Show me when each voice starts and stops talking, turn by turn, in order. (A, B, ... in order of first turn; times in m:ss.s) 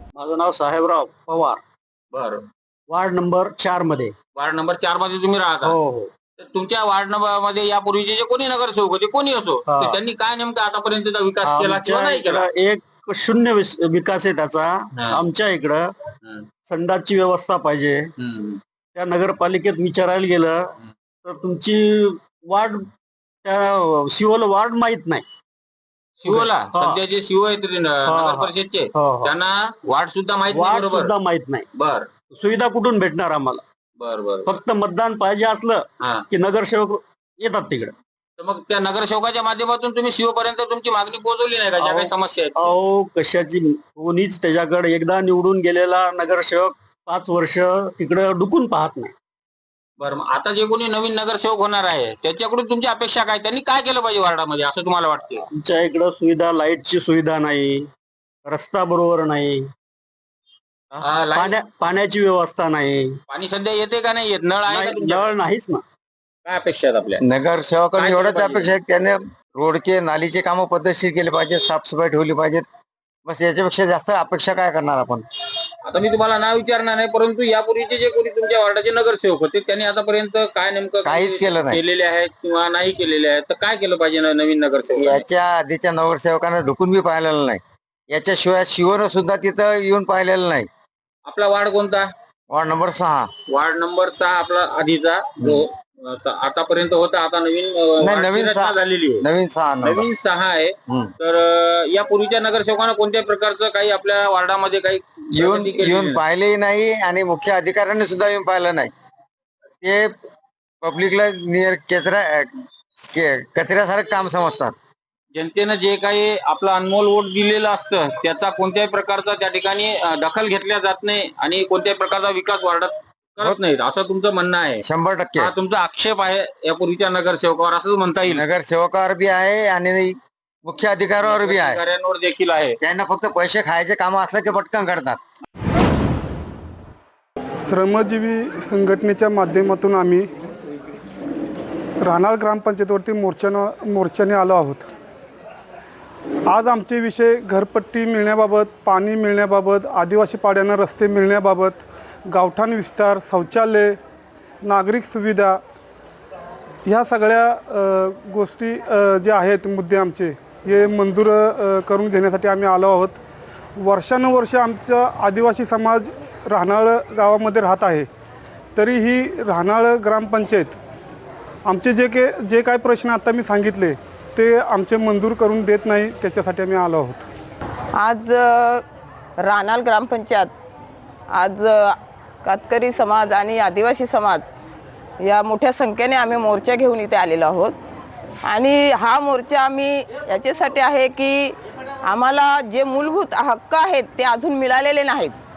0:00.2-0:01.6 A
0:02.1-0:02.4 B
0:02.9-0:04.1 A
0:04.3-0:05.8 B
0:05.6-0:06.1 A
0:06.4-0:12.5 B
0:09.6-0:10.0 A
0:11.4-0:15.9 A
0:14.9-0:15.2 B
0:16.6-0:18.1 A
0:18.2-0:18.6 B
0:18.9-0:20.7 A
0:21.2-0:22.9 A
0:23.4-0:25.2 A
0:26.2-0:31.1 B
0:26.2-0:27.0 A
0:28.0-0:29.3 A
0:30.5-0:31.7 A
0:31.7-0:32.1 B
0:32.3-0:33.6 A
0:34.0-0:34.6 B
0:34.4-0:37.9 A
0:38.4-0:42.7 B
0:41.8-0:49.1 A
0:50.0-0:55.4 B
0:55.5-0:57.9 A
0:58.4-0:59.7 A
1:00.9-1:01.6 B
1:01.3-1:03.2 A
1:03.3-1:05.3 B
1:04.7-1:05.8 A
1:06.4-1:07.2 B
1:07.2-1:12.6 C
1:07.9-1:08.8 B
1:13.2-1:15.2 C
1:15.8-1:25.2 B
1:21.0-1:21.8 C
1:24.9-1:30.7 C
1:31.2-1:32.1 B
1:32.5-1:33.3 C
1:33.5-1:39.2 B
1:38.0-1:40.1 C
1:39.8-1:46.2 B
1:45.3-1:48.9 C
1:49.8-1:50.1 C
1:50.8-1:52.5 C
1:53.1-1:54.7 C
1:55.3-2:04.8 B
2:04.8-2:05.5 C
2:05.4-2:08.4 B
2:08.2-2:11.8 C
2:11.2-2:12.8 B
2:12.8-2:15.2 C
2:17.6-2:20.2 D
2:22.0-2:24.8 D
2:26.5-2:34.0 D
2:34.6-2:35.6 D
2:36.8-2:43.2 D
2:43.8-2:48.1 D
2:48.8-2:50.8 D
2:51.7-2:57.3 D
2:57.9-2:58.8 E
2:59.4-3:00.5 E
3:01.3-3:04.5 E
3:05.2-3:07.8 E
3:08.4-3:15.4 E